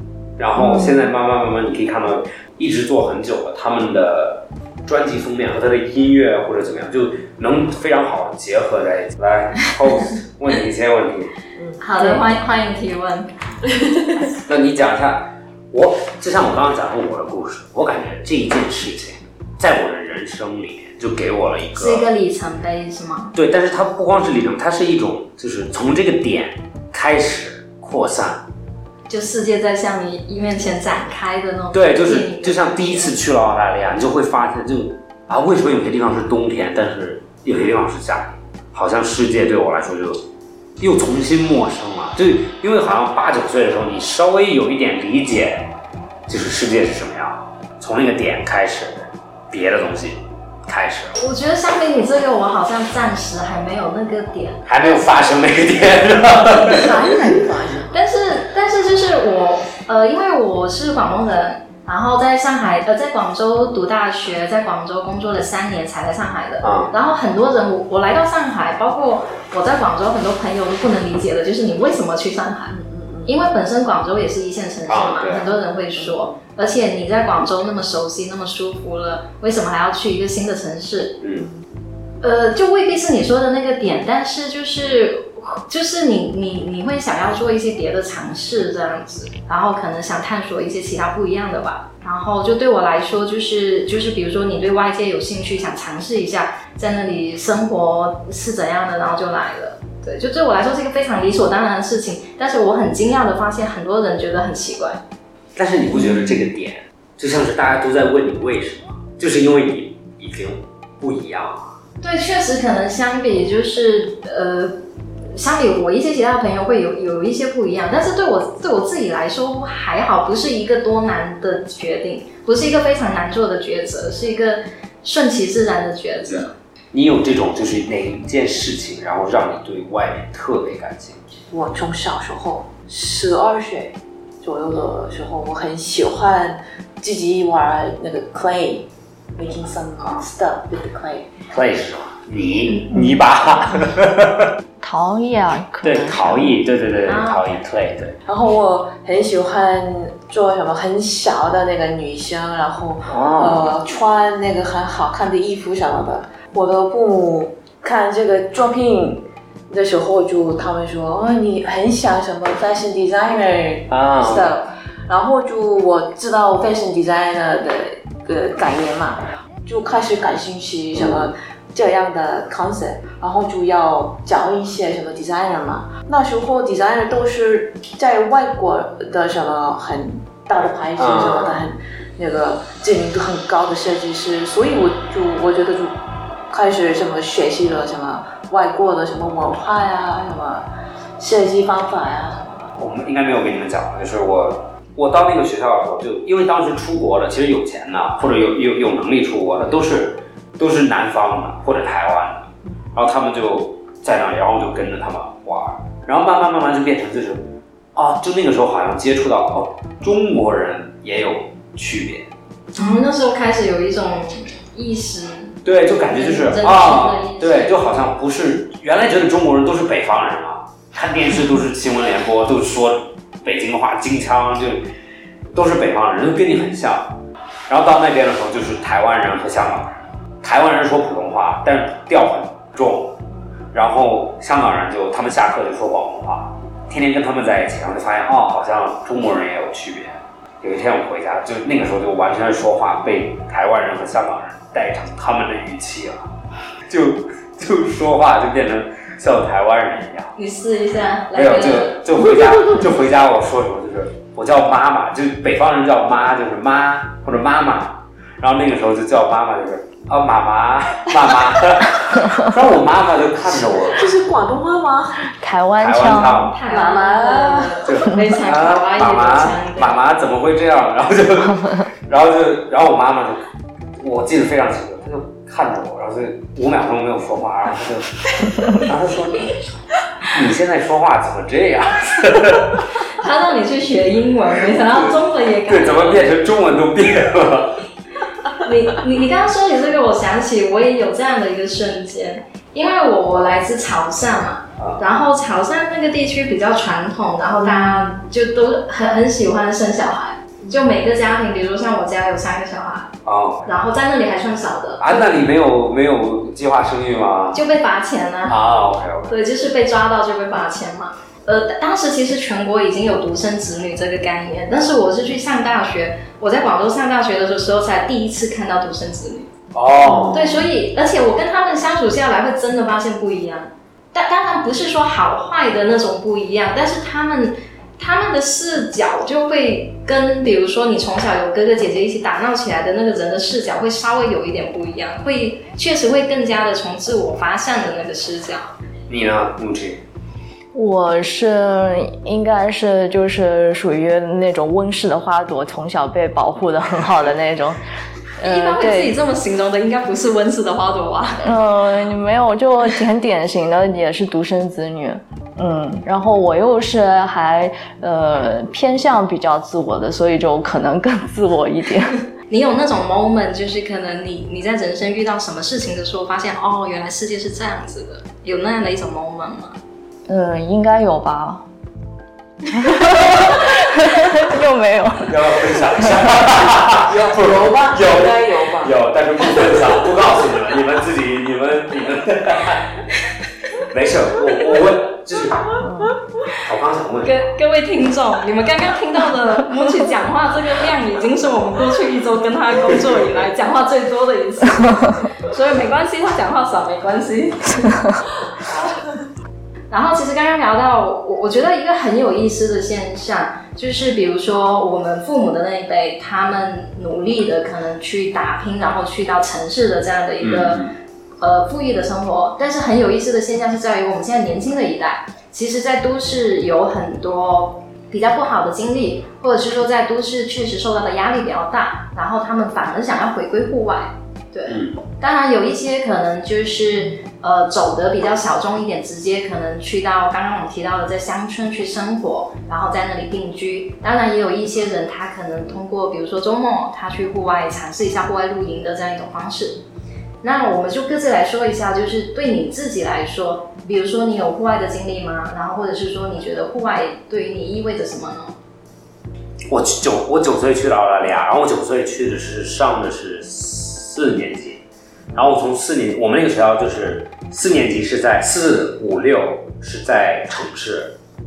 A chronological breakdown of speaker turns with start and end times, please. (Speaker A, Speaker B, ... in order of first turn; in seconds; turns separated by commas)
Speaker A: 0.4-11.3, Speaker B: 0.6-1.1, Speaker B: 11.6-11.8, Speaker C: 11.8-13.3, Speaker B: 13.7-14.2, Speaker A: 14.4-22.1, Speaker C: 21.7-23.3, Speaker A: 23.3-28.4, Speaker C: 29.1-33.1, Speaker A: 31.7-40.2, Speaker A: 40.8-45.7, Speaker A: 46.3-51.2, Speaker C: 51.2-54.6, Speaker A: 54.6-57.0, Speaker B: 56.7-57.9, Speaker C: 57.9-72.7, Speaker A: 66.6-66.9, Speaker B: 72.7-73.4, Speaker C: 73.2-81.2, Speaker A: 74.9-75.5, Speaker B: 76.0-76.4, Speaker A: 81.2-81.5, Speaker B: 81.4-81.6, Speaker C: 82.2-105.0, Speaker A: 105.5-111.8, Speaker B: 106.0-106.5, Speaker C: 112.0-126.5, Speaker A: 126.2-131.2, Speaker B: 131.5-141.3, Speaker A: 141.5-144.5, Speaker D: 144.8-146.6, Speaker A: 145.8-148.2, Speaker C: 147.0-147.6, Speaker B: 148.2-186.0, Speaker A: 153.1-153.7, Speaker A: 163.9-164.5, Speaker A: 170.9-171.3, Speaker A: 181.0-181.6, Speaker B: 186.5-190.6, Speaker B: 191.2-192.7, Speaker A: 192.8-212.3, Speaker C: 212.7-215.6, Speaker A: 215.6-224.9, Speaker C: 216.1-217.8, Speaker A: 225.5-227.2, Speaker A: 227.7-233.2, Speaker A: 233.7-246.3, Speaker A: 246.9-250.3, Speaker C: 250.3-252.0, Speaker A: 251.3-264.1, Speaker B: 263.4-265.2, Speaker D: 265.3-266.5, Speaker A: 265.8-266.6, Speaker C: 266.5-270.0, Speaker B: 266.7-267.8, Speaker A: 267.9-273.4, Speaker A: 274.0-279.6, Speaker A: 280.3-282.9, Speaker C: 283.2-286.3, Speaker A: 284.9-287.8, Speaker C: 288.6-303.1, Speaker B: 297.6-298.1, Speaker B: 300.6-300.9, Speaker A: 303.2-303.6, Speaker C: 303.6-305.2, Speaker A: 305.0-307.6, Speaker C: 307.5-308.6, Speaker A: 308.5-309.4, Speaker C: 309.3-319.5, Speaker A: 319.7-320.5, Speaker B: 320.0-320.6, Speaker C: 320.3-338.7, Speaker A: 339.1-340.0, Speaker D: 340.7-347.8, Speaker D: 348.4-349.1, Speaker C: 348.4-351.5, Speaker D: 351.4-362.1, Speaker C: 362.5-369.8, Speaker D: 370.3-371.7, Speaker D: 372.7-376.1, Speaker A: 375.2-383.0, Speaker B: 376.8-380.0, Speaker A: 383.7-385.7, Speaker A: 386.5-387.4, Speaker C: 387.2-398.1, Speaker B: 398.7-398.9, Speaker C: 399.9-410.8, Speaker A: 410.4-410.9, Speaker C: 411.4-439.8, Speaker A: 424.7-425.0, Speaker C: 440.4-448.6, Speaker A: 449.7-454.8, Speaker A: 455.3-461.1